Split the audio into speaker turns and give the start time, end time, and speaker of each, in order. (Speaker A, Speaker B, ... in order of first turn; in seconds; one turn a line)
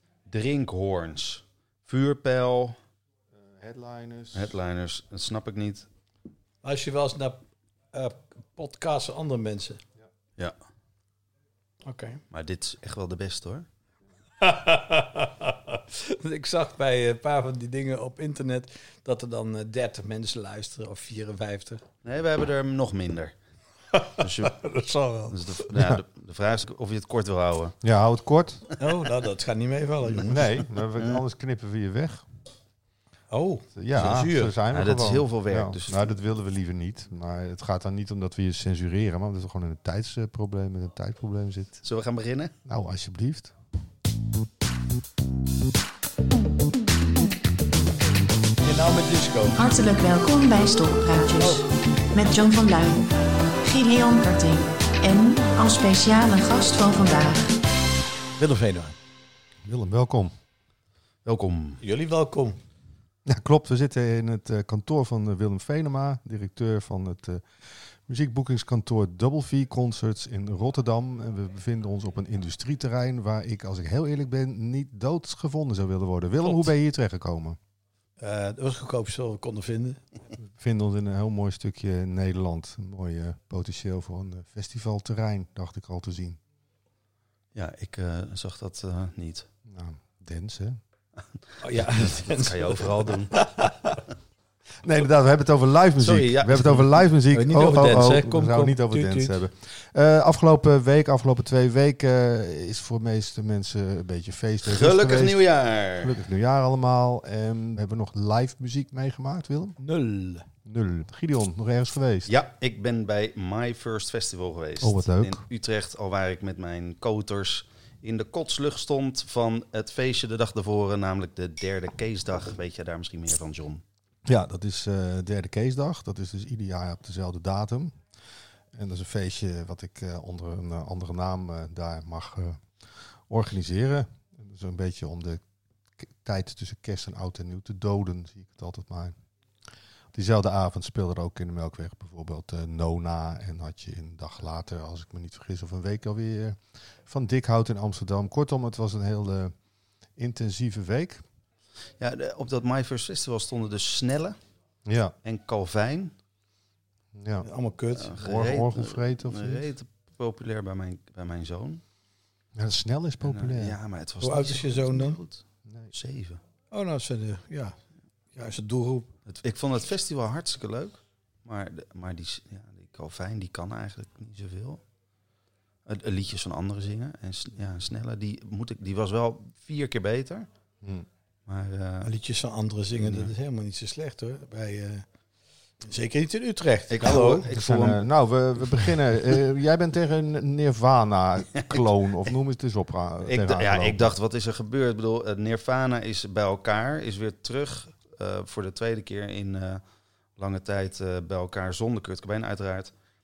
Speaker A: 0.3-2.8
Speaker B: 3.3-4.5
Speaker A: 4.3-5.9
Speaker C: 6.6-7.4
Speaker C: 7.9-9.8
Speaker C: 11.8-12.2
Speaker A: 12.3-13.7
Speaker C: 14.4-21.8
Speaker A: 22.0-23.3
Speaker C: 23.9-25.7
Speaker A: 24.2-24.6
Speaker A: 25.3-27.8
Speaker B: 27.8-28.7
Speaker C: 28.8-30.5
Speaker B: 30.2-32.2
Speaker A: 30.9-31.2
Speaker C: 33.3-34.5
Speaker B: 33.7-41.8
Speaker A: 34.7-36.1
Speaker A: 41.8-42.5
Speaker B: 42.6-43.5
Speaker C: 48.6-49.6
Speaker D: 49.6-53.1
Speaker C: 51.4-51.6
Speaker D: 53.6-57.5
Speaker C: 58.4-59.0
Speaker B: 59.6-60.3
Speaker A: 61.2-61.8
Speaker C: 61.8-62.6
Speaker B: 63.2-77.6
Speaker C: 76.4-76.7
Speaker C: 78.2-80.0
Speaker B: 80.5-86.4
Speaker A: 87.5-89.5
Speaker B: 89.7-90.8
Speaker C: 91.6-94.0
Speaker A: 91.8-93.4
Speaker B: 94.8-105.4
Speaker A: 96.0-97.0
Speaker C: 97.3-99.3
Speaker A: 104.6-106.2
Speaker B: 106.0-109.8
Speaker C: 109.8-110.5
Speaker B: 110.6-112.3
Speaker A: 112.3-123.8
Speaker B: 114.8-115.4
Speaker B: 124.2-128.0
Speaker B: 128.7-132.7
Speaker B: 133.3-135.4
Speaker B: 136.0-139.2
Speaker B: 140.1-149.5
Speaker B: 150.2-151.2
Speaker A: 152.0-154.4
Speaker B: 154.8-155.1
Speaker A: 155.2-156.1
Speaker B: 157.1-157.4
Speaker C: 157.4-158.1
Speaker A: 157.9-161.8
Speaker B: 158.2-159.7
Speaker B: 162.5-163.8
Speaker A: 163.2-166.4
Speaker C: 164.2-165.2
Speaker C: 166.7-167.8
Speaker C: 168.3-169.1
Speaker A: 169.3-174.8
Speaker A: 175.8-180.5
Speaker B: 180.8-181.1
Speaker A: 181.5-182.1
Speaker C: 182.0-185.1
Speaker A: 183.0-183.3
Speaker C: 185.8-187.4
Speaker A: 186.9-188.0
Speaker B: 187.2-194.2
Speaker A: 188.6-188.9
Speaker A: 193.2-199.8
Speaker A: 200.4-202.9